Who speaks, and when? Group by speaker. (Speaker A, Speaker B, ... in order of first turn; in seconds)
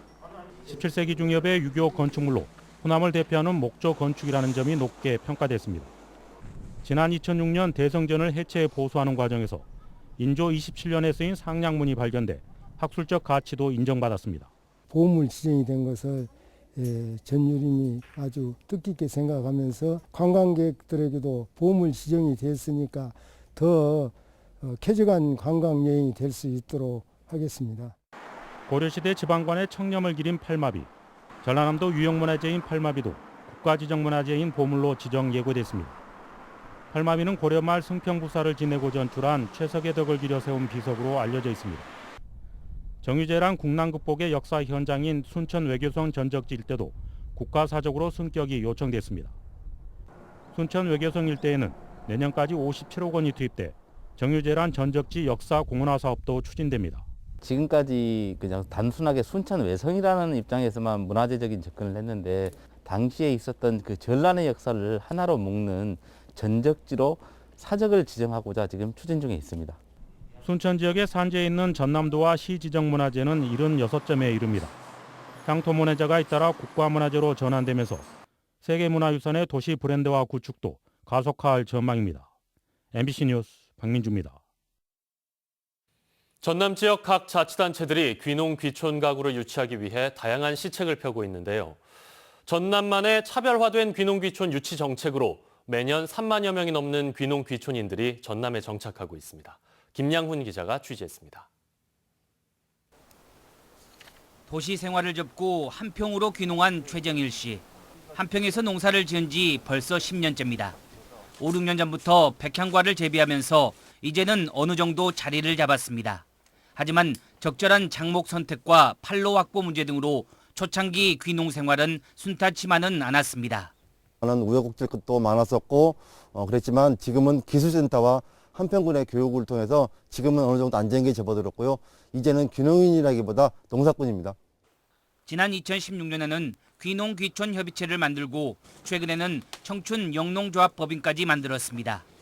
Speaker A: 0.7-5.9, 6.8-9.7, 10.2-14.5, 28.7-30.9, 31.4-36.0, 36.9-41.9, 43.0-49.4, 50.5-57.0, 70.4-74.7, 75.5-78.0, 78.6-82.3, 82.9-84.4
Speaker B: 14.9-27.9
Speaker C: 57.4-69.8
Speaker D: 86.4-91.8, 92.5-101.5
Speaker E: 104.5-110.8, 111.4-116.2, 116.8-123.7, 135.3-142.1
Speaker F: 124.2-134.4